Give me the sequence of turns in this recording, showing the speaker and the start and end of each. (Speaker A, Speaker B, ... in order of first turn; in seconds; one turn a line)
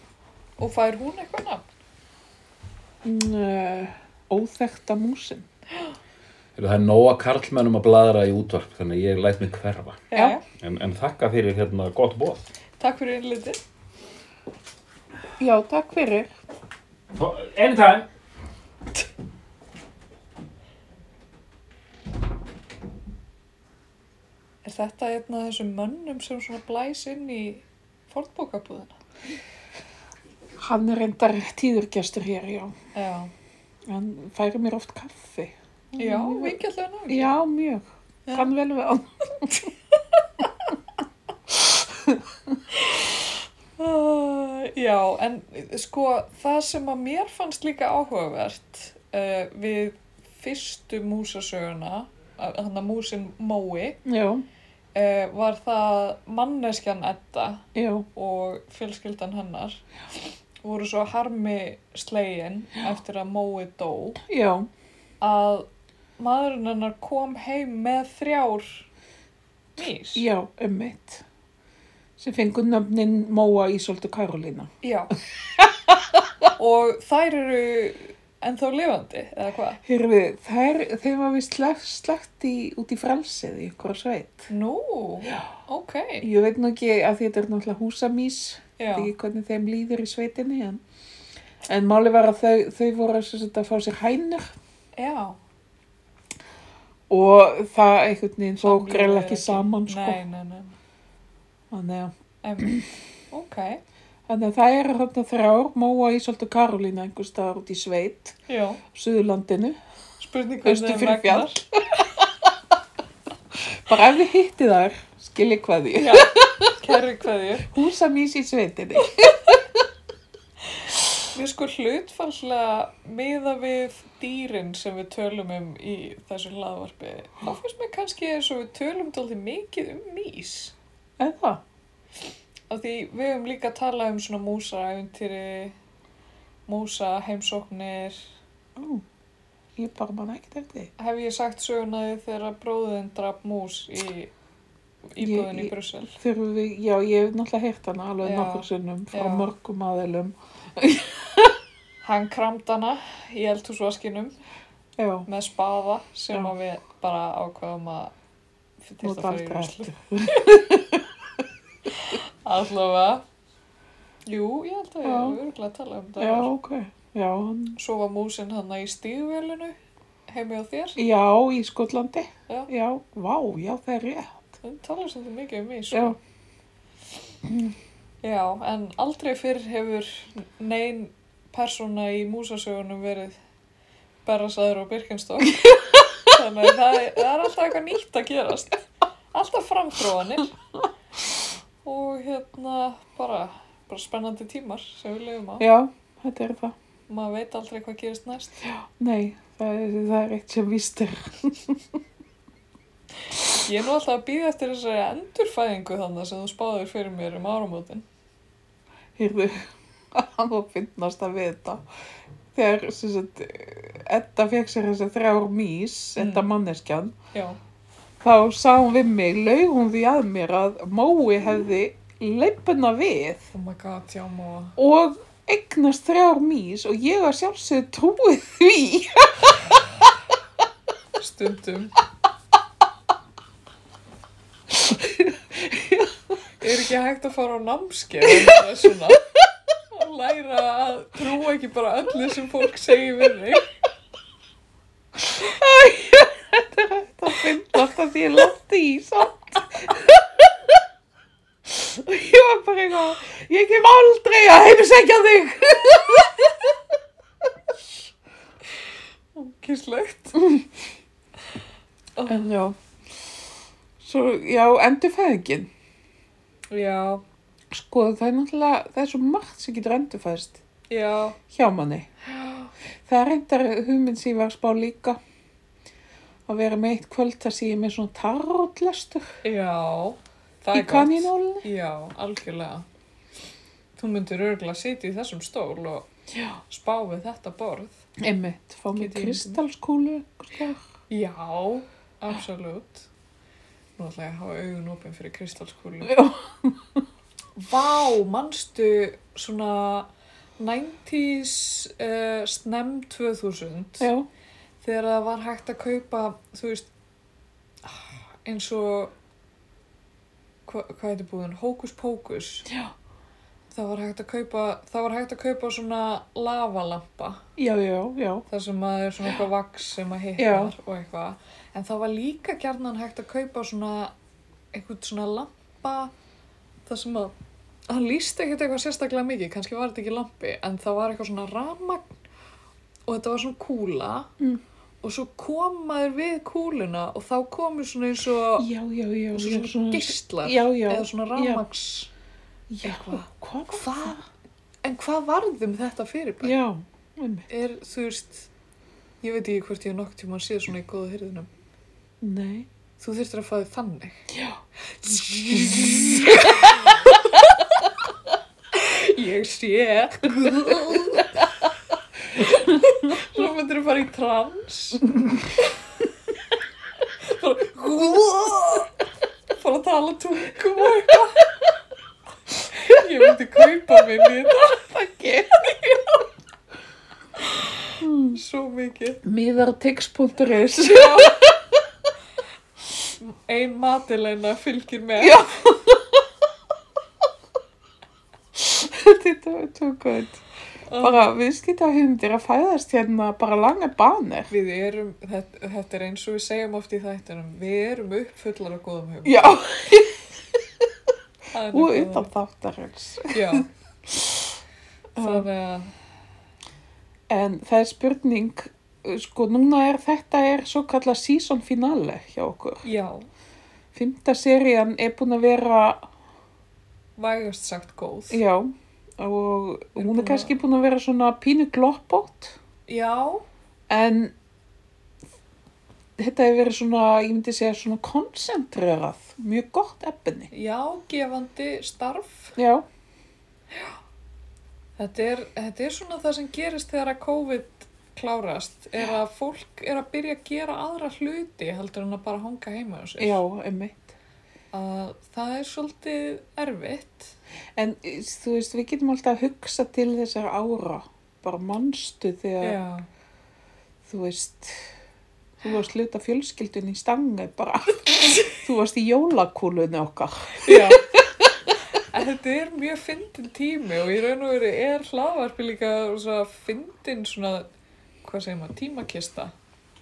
Speaker A: 0.6-1.7
Speaker B: 3.0-5.5
Speaker C: 6.5-12.4
Speaker A: 10.1-10.4
Speaker A: 12.8-13.6
Speaker B: 15.4-16.3
Speaker C: 17.1-18.1
Speaker A: 24.6-28.9
Speaker B: 30.6-32.7
Speaker A: 32.9-33.3
Speaker B: 33.9-36.6
Speaker A: 36.0-37.3
Speaker B: 37.1-39.7
Speaker A: 38.2-38.5
Speaker B: 41.5-42.2
Speaker A: 42.8-43.1
Speaker A: 43.8-54.0
Speaker B: 54.0-54.4
Speaker A: 54.9-59.8
Speaker B: 57.7-58.0
Speaker A: 60.6-64.2
Speaker B: 64.3-64.7
Speaker A: 65.2-65.7
Speaker A: 66.2-68.8
Speaker A: 69.8-70.2
Speaker B: 70.1-71.2
Speaker B: 72.2-74.7
Speaker A: 74.8-75.1
Speaker B: 75.6-76.0
Speaker A: 76.5-79.8
Speaker B: 79.8-84.5
Speaker A: 84.5-86.3
Speaker B: 86.2-90.8
Speaker A: 88.8-89.1
Speaker B: 91.7-94.5
Speaker A: 95.0-95.4
Speaker B: 97.1-100.2
Speaker A: 98.6-100.7
Speaker B: 101.7-102.8
Speaker A: 102.4-103.8
Speaker B: 104.3-108.3
Speaker A: 108.5-108.8
Speaker B: 108.9-109.8
Speaker A: 110.2-111.6
Speaker B: 110.6-112.3
Speaker B: 113.6-116.7
Speaker A: 116.0-117.7
Speaker B: 117.7-119.6
Speaker A: 121.3-130.7
Speaker B: 131.2-131.6
Speaker A: 132.7-135.7
Speaker A: 136.7-138.2
Speaker B: 138.8-139.0
Speaker B: 139.8-140.9
Speaker A: 141.0-144.3
Speaker A: 145.1-146.2
Speaker B: 145.2-151.6
Speaker A: 148.2-149.5
Speaker A: 152.0-154.3
Speaker B: 155.0-155.3
Speaker A: 155.2-158.1
Speaker A: 158.8-160.4
Speaker B: 159.0-161.1
Speaker A: 162.0-163.2
Speaker A: 164.2-166.5
Speaker B: 165.0-165.4
Speaker B: 166.2-167.8
Speaker A: 167.8-169.8
Speaker A: 170.3-171.0
Speaker B: 171.0-174.5
Speaker A: 174.6-176.2
Speaker B: 175.9-176.2
Speaker B: 177.4-177.7
Speaker A: 178.2-183.4
Speaker A: 184.2-190.5
Speaker A: 191.8-195.7
Speaker B: 195.6-196.7
Speaker A: 197.1-198.6
Speaker B: 198.6-201.8
Speaker A: 203.5-208.0
Speaker B: 209.2-211.8
Speaker B: 212.5-217.1
Speaker A: 216.2-216.5
Speaker A: 217.3-217.6
Speaker B: 218.2-223.5
Speaker A: 223.5-224.8
Speaker B: 224.8-229.6
Speaker A: 231.2-231.9
Speaker B: 234.7-236.1
Speaker A: 236.6-239.2
Speaker A: 239.9-243.7
Speaker B: 245.2-250.7
Speaker B: 251.7-256.6
Speaker A: 259.3-260.4
Speaker A: 262.1-262.4
Speaker B: 262.3-262.8
Speaker B: 264.0-265.7
Speaker A: 266.7-267.2
Speaker B: 267.7-270.6
Speaker A: 270.9-271.4
Speaker B: 271.5-272.1
Speaker A: 272.3-272.7
Speaker B: 273.1-275.2
Speaker B: 276.5-279.4
Speaker A: 279.4-282.9
Speaker B: 280.7-281.6
Speaker A: 284.0-286.1
Speaker A: 286.7-288.0
Speaker B: 288.2-290.8
Speaker A: 288.9-289.6
Speaker A: 291.1-293.1
Speaker A: 294.0-296.3
Speaker B: 296.0-297.0
Speaker A: 297.6-304.1
Speaker B: 304.0-304.3
Speaker A: 304.8-306.9
Speaker A: 307.8-309.1
Speaker A: 310.6-312.7
Speaker A: 313.7-317.4
Speaker B: 317.6-318.4
Speaker A: 318.5-324.1
Speaker B: 320.4-320.7
Speaker A: 324.7-326.1
Speaker A: 326.9-327.3
Speaker A: 327.9-332.1
Speaker A: 333.1-334.3
Speaker A: 335.0-338.7
Speaker B: 338.6-341.6
Speaker A: 339.3-342.1
Speaker B: 342.7-344.2
Speaker A: 342.8-344.2
Speaker A: 344.8-346.6
Speaker B: 346.4-347.5
Speaker A: 347.5-348.5
Speaker A: 349.2-351.5
Speaker B: 352.2-352.7
Speaker A: 353.0-354.2
Speaker B: 354.3-354.6
Speaker A: 355.0-357.4
Speaker B: 355.5-356.7
Speaker A: 358.7-361.4
Speaker A: 362.4-365.1
Speaker A: 367.2-368.9
Speaker A: 369.5-371.4
Speaker A: 372.8-374.9
Speaker B: 374.7-375.6
Speaker A: 375.5-376.2
Speaker B: 378.0-378.4
Speaker A: 378.3-379.2
Speaker B: 379.2-381.6
Speaker A: 380.8-381.4
Speaker A: 383.2-385.4
Speaker B: 385.2-386.1
Speaker B: 388.5-390.4
Speaker A: 390.9-391.3
Speaker B: 391.0-394.5
Speaker A: 394.5-399.6
Speaker B: 399.2-400.3
Speaker A: 401.5-402.3
Speaker B: 401.7-404.5
Speaker A: 403.3-403.7
Speaker B: 405.1-405.5
Speaker A: 405.2-405.9
Speaker B: 407.3-412.8
Speaker A: 412.8-413.2
Speaker B: 413.9-416.1
Speaker A: 417.2-418.4
Speaker B: 418.3-422.6
Speaker A: 419.9-420.6
Speaker A: 422.9-423.4
Speaker B: 423.9-424.3
Speaker B: 426.2-430.5
Speaker A: 430.5-432.6
Speaker B: 432.6-432.9
Speaker A: 435.0-443.4
Speaker B: 443.2-444.1
Speaker A: 444.7-447.3
Speaker B: 447.8-452.8
Speaker A: 452.6-453.1
Speaker B: 454.0-454.9
Speaker B: 455.6-461.5
Speaker A: 460.6-461.1
Speaker A: 461.9-467.7
Speaker A: 468.2-469.5